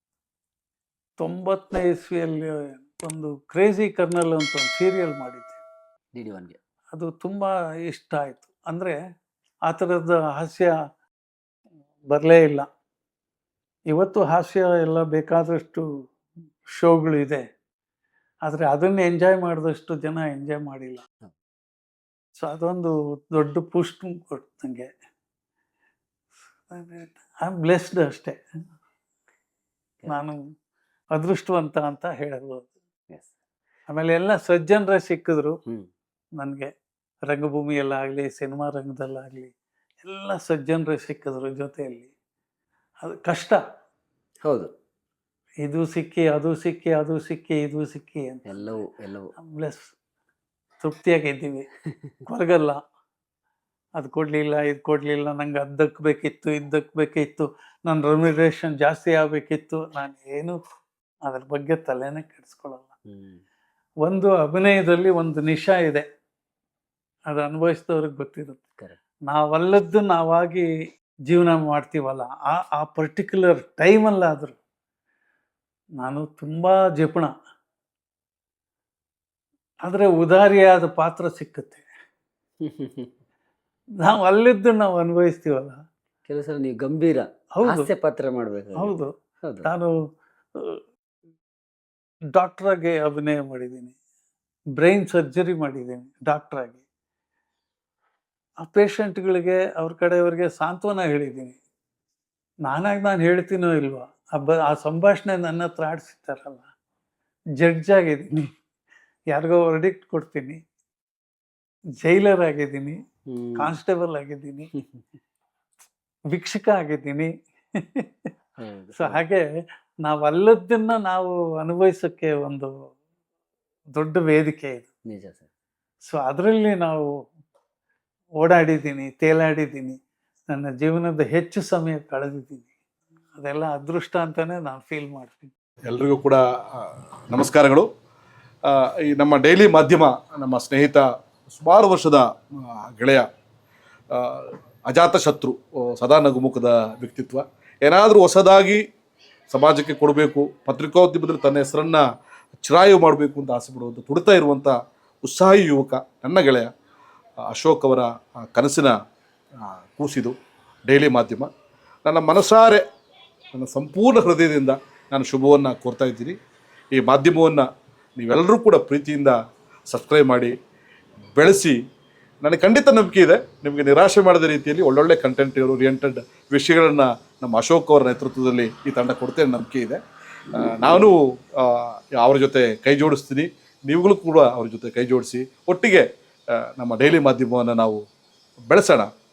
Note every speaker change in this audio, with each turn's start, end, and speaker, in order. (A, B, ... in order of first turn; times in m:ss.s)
0:01.2-0:05.6 A
0:06.1-0:06.6 B
0:06.9-0:09.0 A
0:09.7-0:10.7 A
0:12.1-0:12.6 A
0:13.9-0:15.8 A
0:16.7-0:17.4 A
0:18.4-0:21.0 A
0:22.4-0:24.9 A
0:26.7-0:28.4 A
0:30.1-0:30.4 A
0:31.2-0:32.7 A
0:33.9-0:35.6 A
0:36.4-0:36.7 A
0:37.3-0:42.1 A
0:43.0-0:43.6 A
0:44.4-0:44.7 B
0:45.6-0:48.8 A
0:48.4-0:49.3 B
0:49.4-0:49.9 A
0:50.8-0:51.7 A
0:52.2-0:52.8 A
0:54.0-1:00.6 A
1:01.2-1:02.9 A
1:03.1-1:03.4 B
1:04.0-1:06.0 A
1:07.3-1:08.6 A
1:09.3-1:10.7 A
1:11.3-1:14.6 A
1:16.0-1:17.3 A
1:19.8-1:21.9 A
1:22.6-1:23.1 B
1:24.0-1:25.8 A
1:26.2-1:29.7 B
1:27.6-1:27.9 A
1:28.8-1:29.1 A
1:29.6-1:29.9 A
1:32.4-1:33.9 A
1:34.8-1:36.8 A
1:38.6-1:41.6 A
1:42.6-1:46.7 A
1:47.6-1:48.5 A
1:49.3-1:50.6 A
1:52.0-1:53.0 A
1:53.3-1:53.7 B
1:53.6-1:54.7 A
1:56.3-1:57.3 A
1:58.6-1:59.2 B
1:59.0-1:59.4 A
2:00.0-2:02.7 A
2:04.0-2:04.9 A
2:05.1-2:05.4 B
2:06.1-2:07.0 A
2:08.4-2:10.0 A
2:10.5-2:12.7 A
2:13.4-2:15.5 A
2:15.9-2:17.9 C
2:18.6-2:23.2 C
2:24.1-2:28.8 C
2:29.5-2:32.0 C
2:32.6-2:36.7 C
2:37.5-2:38.9 C
2:39.6-2:40.3 C
2:40.9-2:41.5 C
2:42.0-2:42.8 C
2:43.6-2:46.4 C
2:46.9-2:47.6 C
2:48.2-2:49.4 C
2:49.9-2:50.5 C
2:51.4-2:51.8 C
2:52.4-3:00.0 C
3:00.5-3:06.0 C
3:06.8-3:08.0 C
3:08.7-3:09.1 C